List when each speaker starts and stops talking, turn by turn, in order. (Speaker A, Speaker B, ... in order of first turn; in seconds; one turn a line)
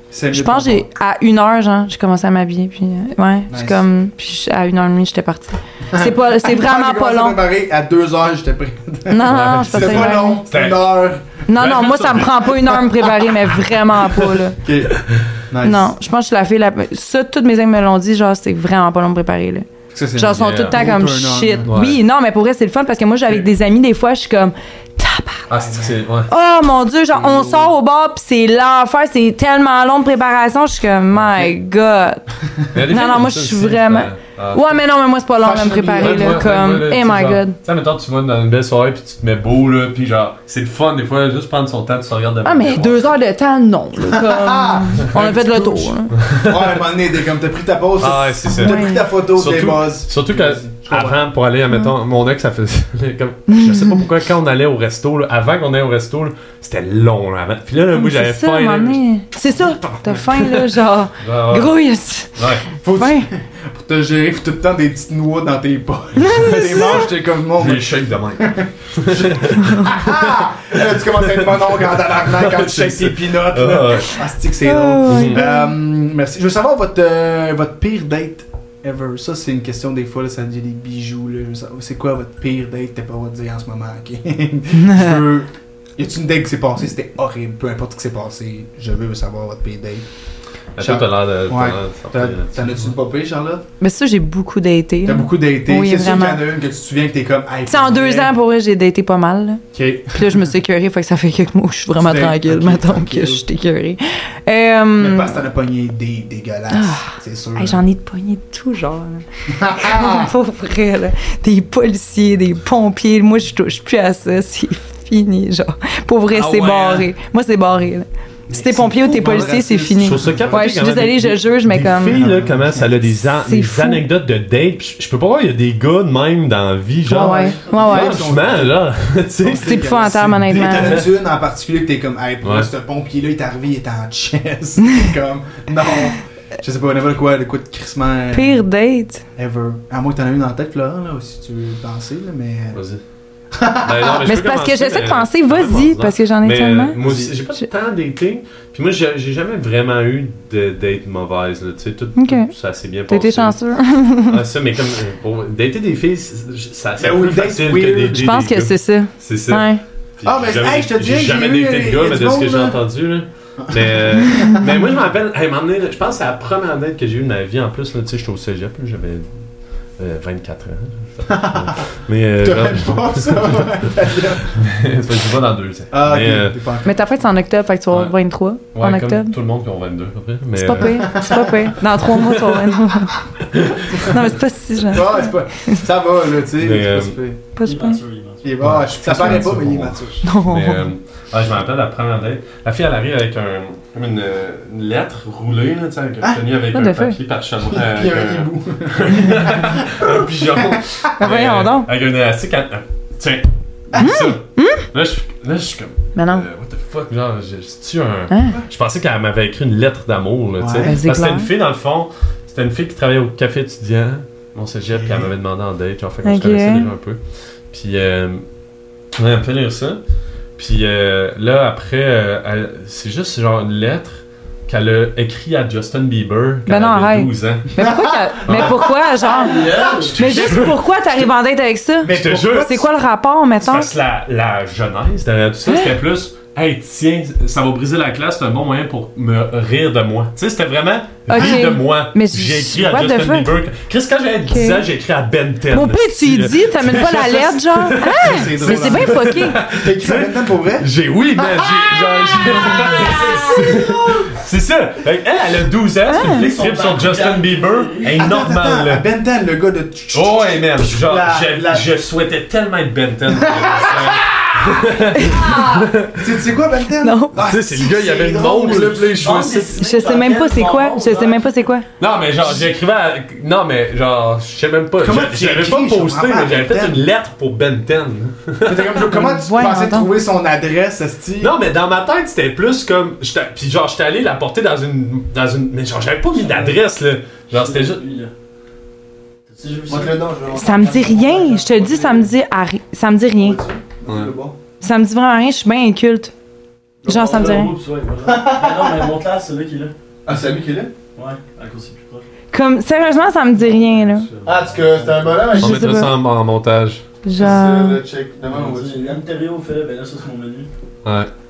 Speaker A: 0.1-0.9
Speaker B: 0.3-7.4
Speaker A: 3.5-3.8
Speaker A: 5.9-11.4
Speaker B: 9.1-10.4
Speaker C: 9.2-10.9
Speaker B: 11.5-14.6
Speaker C: 11.6-12.9
Speaker A: 14.6-15.9
Speaker B: 15.6-25.5
Speaker A: 19.9-21.7
Speaker C: 20.3-20.8
Speaker C: 21.6-22.0
Speaker C: 25.5-26.3
Speaker A: 25.5-26.1
Speaker B: 26.3-37.6
Speaker A: 27.1-27.7
Speaker C: 31.1-31.5
Speaker C: 32.7-34.8
Speaker A: 35.4-36.5
Speaker C: 36.0-43.1
Speaker B: 42.4-46.1
Speaker A: 44.1-51.2
Speaker C: 46.2-46.7
Speaker C: 48.0-59.0
Speaker B: 48.5-49.0
Speaker B: 53.5-54.0
Speaker B: 57.9-63.3
Speaker C: 59.9-61.8
Speaker C: 62.4-62.7
Speaker A: 62.8-90.0
Speaker B: 66.2-67.1
Speaker C: 66.3-70.5
Speaker C: 71.4-74.2
Speaker B: 74.6-75.7
Speaker C: 75.1-75.4
Speaker B: 84.8-85.2
Speaker C: 90.8-92.9
Speaker A: 90.8-93.6
Speaker B: 93.8-96.4
Speaker A: 95.0-98.3
Speaker B: 97.7-105.4
Speaker A: 99.7-100.5
Speaker A: 102.0-103.4
Speaker A: 105.0-107.8
Speaker B: 106.7-122.2
Speaker A: 109.5-110.3
Speaker C: 116.4-117.0
Speaker A: 118.5-120.7
Speaker C: 120.0-129.9
Speaker A: 122.0-122.9
Speaker B: 123.3-124.0
Speaker B: 127.1-128.2
Speaker A: 127.1-128.8
Speaker A: 129.4-138.6
Speaker B: 129.6-131.1
Speaker C: 130.7-131.0
Speaker C: 132.4-132.7
Speaker B: 138.3-139.2
Speaker A: 139.3-142.8
Speaker C: 142.7-143.0
Speaker A: 143.5-144.3
Speaker C: 143.8-153.6
Speaker B: 144.2-146.9
Speaker A: 147.0-147.3
Speaker B: 152.2-152.5
Speaker B: 153.1-154.3
Speaker C: 154.1-169.3
Speaker A: 157.0-158.3
Speaker B: 158.1-159.8
Speaker A: 160.2-162.8
Speaker A: 163.6-164.7
Speaker C: 170.0-173.7
Speaker A: 171.3-171.8
Speaker A: 172.4-174.6
Speaker C: 174.5-176.6
Speaker A: 175.9-177.0
Speaker B: 176.8-179.3
Speaker C: 178.7-181.2
Speaker B: 180.6-183.2
Speaker A: 180.8-181.7
Speaker C: 182.1-182.7
Speaker C: 183.5-184.2
Speaker B: 184.0-185.8
Speaker A: 184.9-187.4
Speaker C: 186.6-187.2
Speaker B: 187.6-188.0
Speaker D: 187.6-188.4
Speaker A: 188.4-190.2
Speaker C: 188.6-217.2
Speaker B: 190.2-190.9
Speaker B: 196.7-197.2
Speaker A: 197.7-200.8
Speaker B: 201.2-201.9
Speaker A: 203.9-204.2
Speaker B: 204.0-204.8
Speaker B: 206.1-206.4
Speaker B: 208.3-208.6
Speaker A: 210.6-211.0
Speaker B: 210.8-211.5
Speaker A: 214.9-215.3
Speaker B: 216.2-216.9
Speaker C: 217.7-218.4
Speaker C: 219.1-220.0
Speaker C: 220.6-227.7
Speaker B: 226.7-233.9
Speaker A: 227.8-228.8
Speaker C: 228.4-228.9
Speaker D: 229.3-230.2
Speaker A: 229.5-230.1
Speaker C: 230.0-230.9
Speaker A: 232.0-232.9
Speaker C: 232.1-232.8
Speaker C: 233.6-259.0
Speaker B: 241.3-243.5
Speaker B: 244.5-244.8
Speaker B: 245.7-249.6
Speaker A: 248.0-253.9
Speaker D: 252.9-253.9
Speaker B: 256.1-256.5
Speaker D: 256.2-258.2
Speaker A: 258.1-261.8
Speaker C: 260.1-266.3
Speaker A: 263.3-269.6
Speaker B: 265.1-265.7
Speaker B: 267.0-267.4
Speaker C: 267.3-269.7
Speaker D: 268.4-271.5
Speaker B: 269.8-271.9
Speaker C: 272.0-278.9
Speaker A: 275.0-277.0
Speaker A: 278.6-281.5
Speaker B: 279.0-280.1
Speaker C: 281.4-288.0
Speaker D: 286.3-286.8
Speaker D: 287.5-288.3
Speaker D: 289.5-290.2
Speaker A: 289.9-292.3
Speaker B: 290.5-293.6
Speaker A: 293.4-294.6
Speaker C: 294.1-294.3
Speaker B: 294.8-296.3
Speaker B: 297.0-297.7
Speaker D: 297.0-299.9
Speaker A: 298.2-299.1
Speaker A: 300.2-300.9
Speaker D: 301.1-302.3
Speaker B: 302.5-304.3
Speaker D: 303.6-305.4
Speaker A: 304.4-306.0
Speaker B: 305.5-306.1
Speaker C: 305.6-307.0
Speaker B: 307.2-308.0
Speaker A: 307.4-309.2
Speaker D: 308.5-310.7
Speaker C: 311.0-311.3